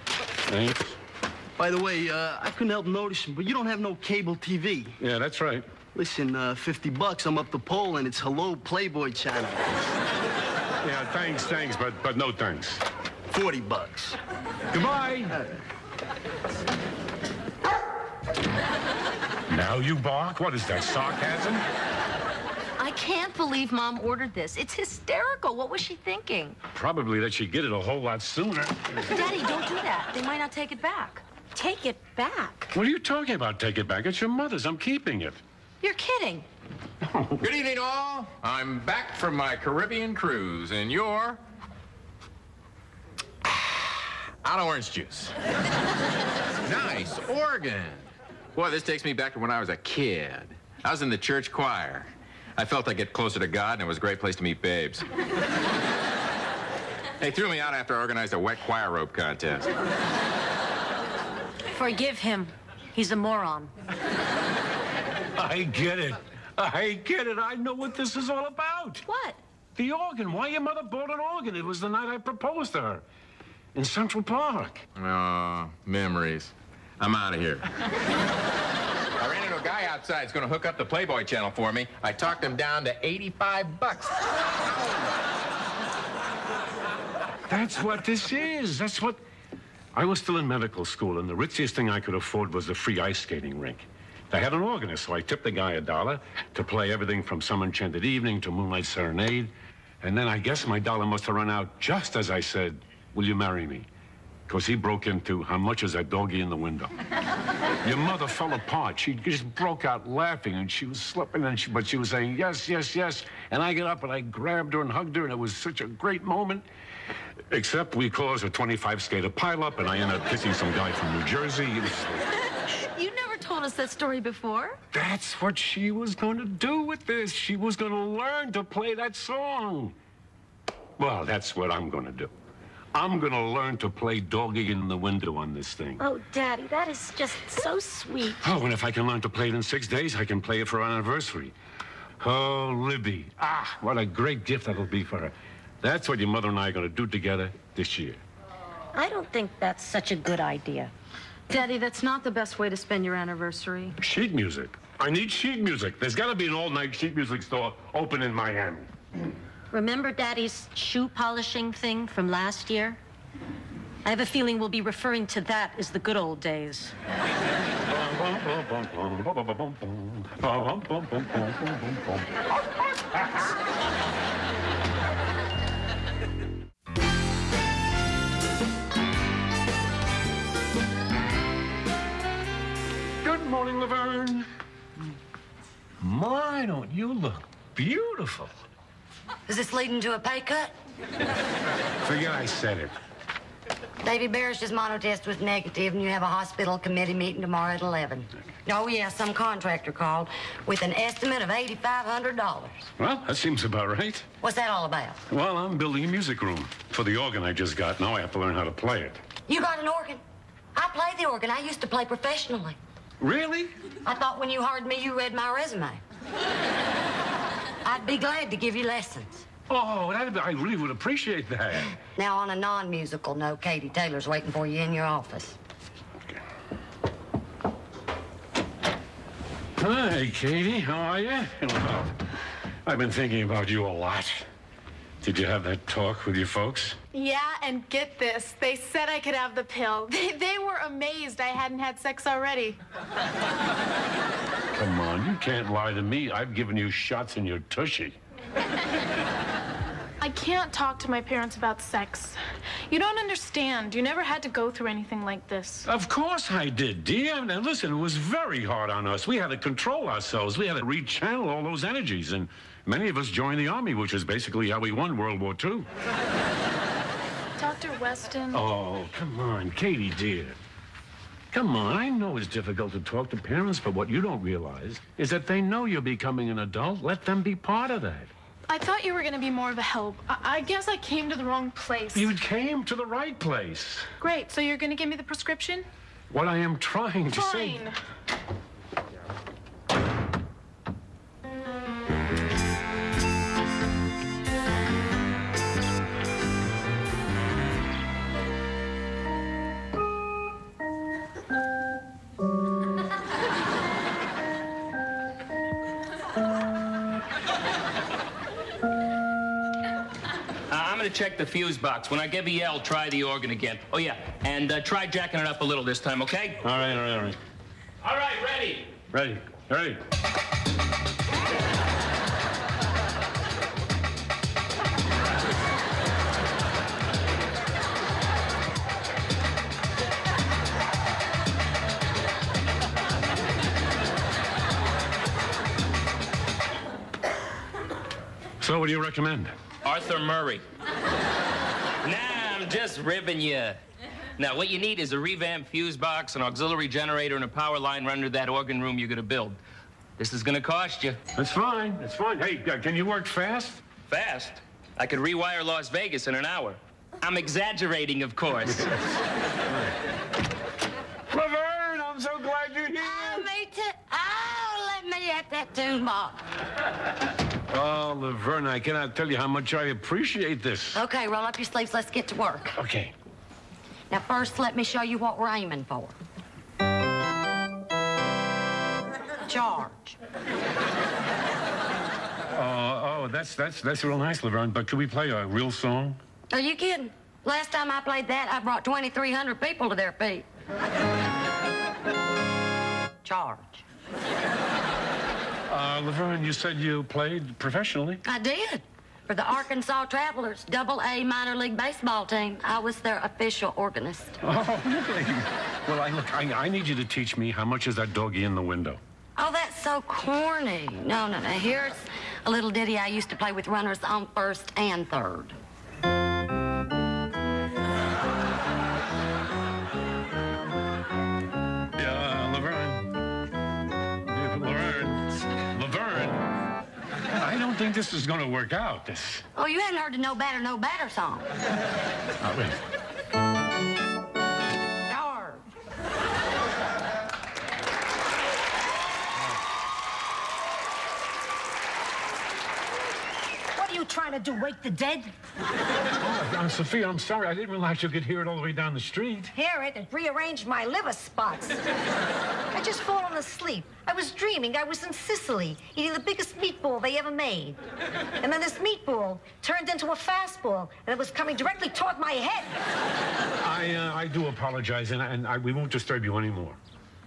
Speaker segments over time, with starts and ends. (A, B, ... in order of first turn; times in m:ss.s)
0:00.5-0:01.0 A
0:01.6-0:05.0 B
0:05.0-0:05.7 A
0:05.9-0:09.9 B
0:10.8-0:12.8 A
0:13.3-0:14.2 B
0:14.7-0:15.4 A
0:19.5-0:21.6 A
0:22.8-0:26.6 C
0:26.7-0:29.0 A
0:29.0-0:31.2 C
0:31.5-0:32.7 D
0:32.7-0:35.4 A
0:35.8-0:36.5 C
0:37.0-0:37.5 A
0:37.4-0:41.4 E
0:43.8-0:45.3 E
0:46.6-0:55.0 E
0:57.2-0:59.7 E
1:01.7-1:03.7 D
1:05.4-1:09.0 A
1:09.0-1:09.4 D
1:09.7-1:13.0 A
1:13.7-1:14.8 A
1:14.9-1:17.6 E
1:19.2-1:25.1 E
1:27.5-1:29.2 A
1:29.9-1:43.9 A
1:44.5-1:47.0 A
1:47.8-1:56.7 A
1:57.5-2:02.3 A
2:02.7-2:04.8 C
2:04.9-2:10.0 A
2:11.0-2:12.3 A
2:12.9-2:16.0 A
2:16.0-2:18.4 D
2:18.4-2:21.5 A
2:22.2-2:28.2 A
2:28.9-2:30.9 D
2:31.5-2:34.0 C
2:34.0-2:38.9 A
2:39.7-2:43.0 D
2:44.0-2:46.9 D
2:47.9-2:53.5 A
3:03.2-3:04.5 A
3:06.0-3:08.5 A
3:09.5-3:10.7 F
3:12.0-3:12.9 A
3:14.0-3:22.9 F
3:23.0-3:24.3 A
3:24.4-3:25.2 F
3:25.3-3:29.2 A
3:29.5-3:30.2 F
3:30.7-3:32.8 F
3:33.2-3:33.7 A
3:34.0-3:36.0 F
3:37.8-3:39.4 F
3:39.7-3:42.0 A
3:42.1-3:45.6 F
3:49.8-3:52.2 A
3:52.8-3:54.5 A
3:55.2-3:57.0 A
3:57.1-4:02.8 G
4:04.7-4:08.2 A
4:10.2-4:15.9 G
4:15.8-4:25.9 A
4:27.6-4:28.6 G
4:28.5-4:30.6 A
4:31.5-4:38.3 A
4:38.7-4:42.3 G
4:42.1-4:44.1 A
4:44.2-4:45.8 G
4:46.3-4:47.9 A
4:47.3-4:48.0 G
5:10.7-5:16.6 H
5:16.6-5:17.4 A
5:18.0-5:18.9 H
5:19.1-5:20.0 A
5:38.6-5:39.5 A
5:39.8-5:40.6 H
5:42.0-5:43.8 H
5:44.4-5:49.6 H
5:50.2-5:51.2 H
5:51.3-5:53.8 A
5:54.1-5:58.9 H
5:59.7-6:00.0 A
6:01.3-6:03.5 A
6:03.0-6:06.4 F
6:07.7-6:11.0 A
6:10.9-6:12.8 F
6:12.7-6:13.1 A
6:14.1-6:16.2 F
6:19.5-6:20.1 C
6:22.5-6:26.2 A
6:26.5-6:30.5 F
6:33.4-6:33.8 F
6:35.7-6:38.2 A
6:38.2-6:44.4 F
6:44.4-6:49.0 A
6:49.4-6:55.6 F
7:01.9-7:03.2 A
7:04.2-7:06.5 A
7:07.4-7:09.4 A
7:09.6-7:11.5 F
7:12.4-7:12.8 A
7:15.1-7:15.6 F
7:23.7-7:25.3 I
7:26.1-7:29.5 A
7:29.5-7:31.8 I
7:32.7-7:37.8 I
7:38.4-7:42.8 I
7:43.6-7:46.8 A